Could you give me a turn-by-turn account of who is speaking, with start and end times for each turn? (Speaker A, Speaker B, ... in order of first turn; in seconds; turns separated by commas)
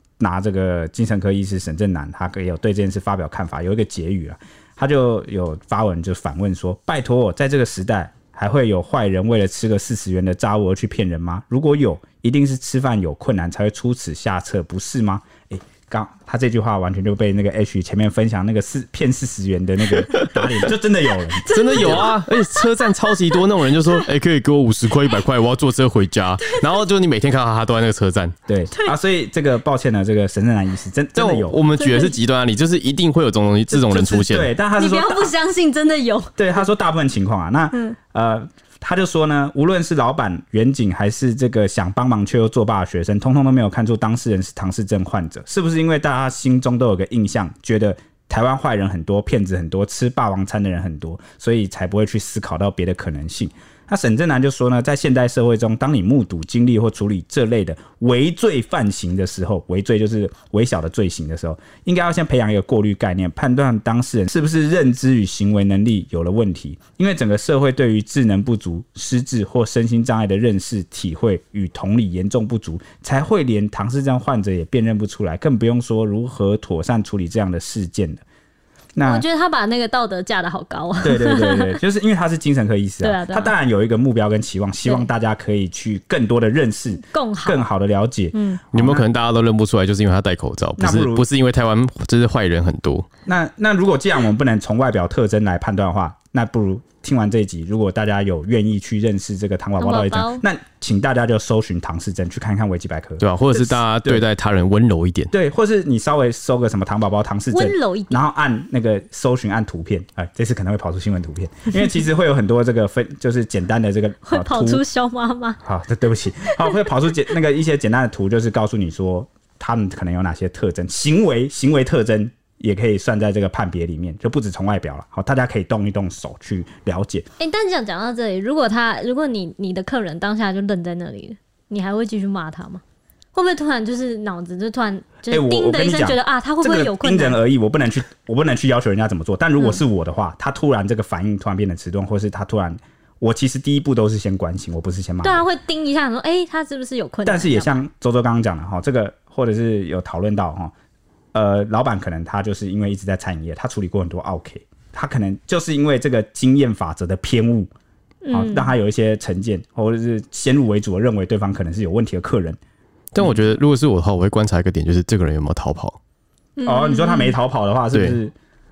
Speaker A: 0.2-22.1, Speaker B: 20.0-20.4, Speaker C: 21.4-24.0, Speaker B: 21.5-28.3, Speaker A: 28.5-31.6, Speaker B: 31.1-34.5, Speaker C: 31.7-32.1, Speaker A: 33.7-35.3, Speaker C: 34.8-36.3, Speaker A: 36.4-78.2, Speaker A: 78.9-79.2, Speaker C: 79.0-81.8, Speaker A: 81.0-89.0, Speaker C: 83.0-83.5, Speaker C: 87.1-87.7, Speaker C: 88.3-88.6, Speaker B: 88.7-93.1, Speaker A: 90.8-91.2, Speaker A: 93.3-104.2, Speaker C: 99.8-100.4, Speaker B: 103.2-105.3, Speaker A: 105.3-114.8, Speaker C: 107.5-108.2, Speaker C: 114.2-115.6, Speaker A: 115.6-127.2, Speaker C: 127.4-132.8, Speaker C: 133.3-137.4, Speaker A: 135.3-145.4, Speaker C: 145.2-147.8, Speaker A: 147.2-150.7, Speaker A: 151.3-157.7, Speaker C: 158.2-158.7, Speaker A: 158.3-162.6, Speaker B: 163.1-166.0, Speaker A: 163.2-163.6, Speaker C: 166.6-167.3, Speaker A: 166.7-168.3